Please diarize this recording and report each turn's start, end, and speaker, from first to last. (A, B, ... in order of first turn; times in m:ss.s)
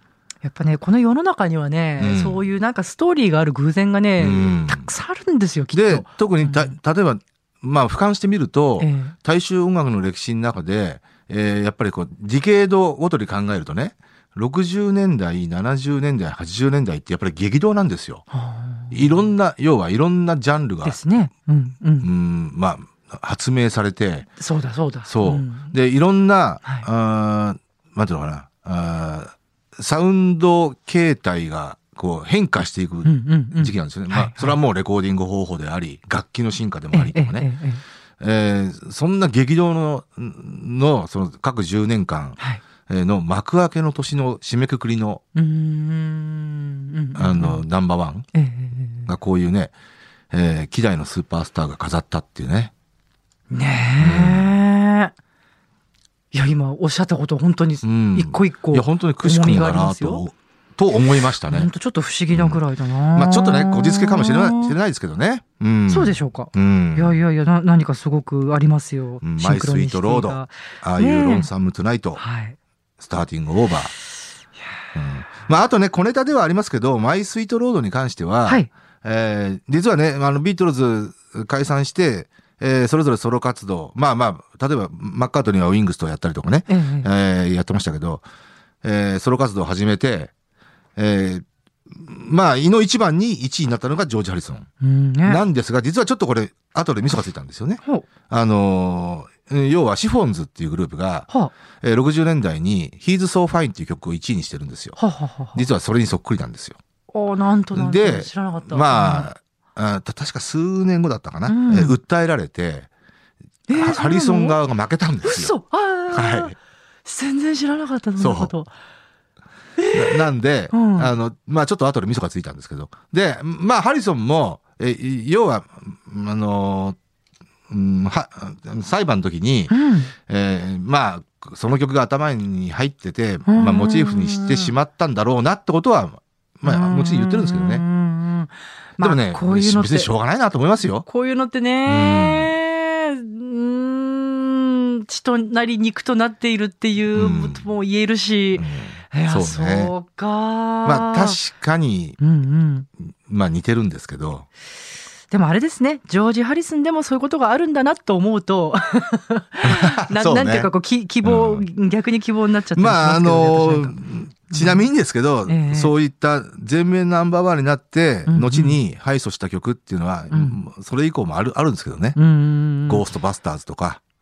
0:00.4-0:06.7 A
0:02.0-0:02.4 B
0:04.2-0:04.9 B
0:05.7-0:18.2 B
0:08.8-0:09.1 A
0:18.3-0:19.2 A
0:18.9-0:21.0 B
0:20.8-0:22.1 A
0:22.0-0:24.3 B
0:24.4-0:25.7 A
0:25.1-0:37.5 B
0:33.0-0:34.6 A
0:36.9-0:37.8 A
0:38.2-0:45.2 B
0:45.4-0:47.6 A
0:47.1-0:48.3 B
0:48.4-0:49.1 A
0:49.1-0:49.7 B
0:50.3-0:52.7 B
0:53.5-0:55.1 A
0:54.0-0:54.6 B
0:56.3-1:00.2 A
0:57.8-1:01.7 B
1:01.5-1:04.8 A
1:02.3-1:02.6 B
1:03.1-1:07.2 B
1:05.9-1:11.5 A
1:09.2-1:12.2 B
1:12.2-1:12.6 A
1:13.0-1:13.9 B
1:14.9-1:28.2 B
1:26.7-1:27.1 A
1:28.8-1:30.3 B
1:31.0-1:34.7 B
1:34.8-1:35.4 A
1:35.2-1:41.3 B
1:41.8-1:45.0 B
1:45.0-1:45.6 A
1:45.5-1:46.8 B
1:47.1-1:49.3 A
1:47.7-1:52.9 B
1:51.5-1:52.0 A
1:53.7-1:54.6 A
1:53.7-1:55.5 B
1:55.2-1:56.5 A
1:56.1-1:56.5 B
1:57.1-1:58.7 A
1:58.2-1:58.5 B
1:59.8-2:01.1 A
1:59.9-2:07.0 B
2:07.7-2:17.9 B
2:09.7-2:10.1 A
2:13.5-2:14.7 A
2:16.6-2:20.1 A
2:19.0-2:21.0 B
2:21.0-2:31.4 A
2:21.9-2:22.5 B
2:27.1-2:27.7 B
2:28.6-2:29.9 B
2:30.8-2:32.2 B
2:32.2-2:32.9 A
2:33.3-2:34.5 B
2:35.3-2:44.0 A
2:39.6-2:40.7 B
2:41.2-2:41.6 B
2:42.8-2:52.2 B
2:44.5-2:44.9 A
2:45.5-2:45.9 A
2:48.3-2:48.8 A
2:50.3-2:50.6 A
2:52.1-2:53.1 A
2:52.9-2:54.0 B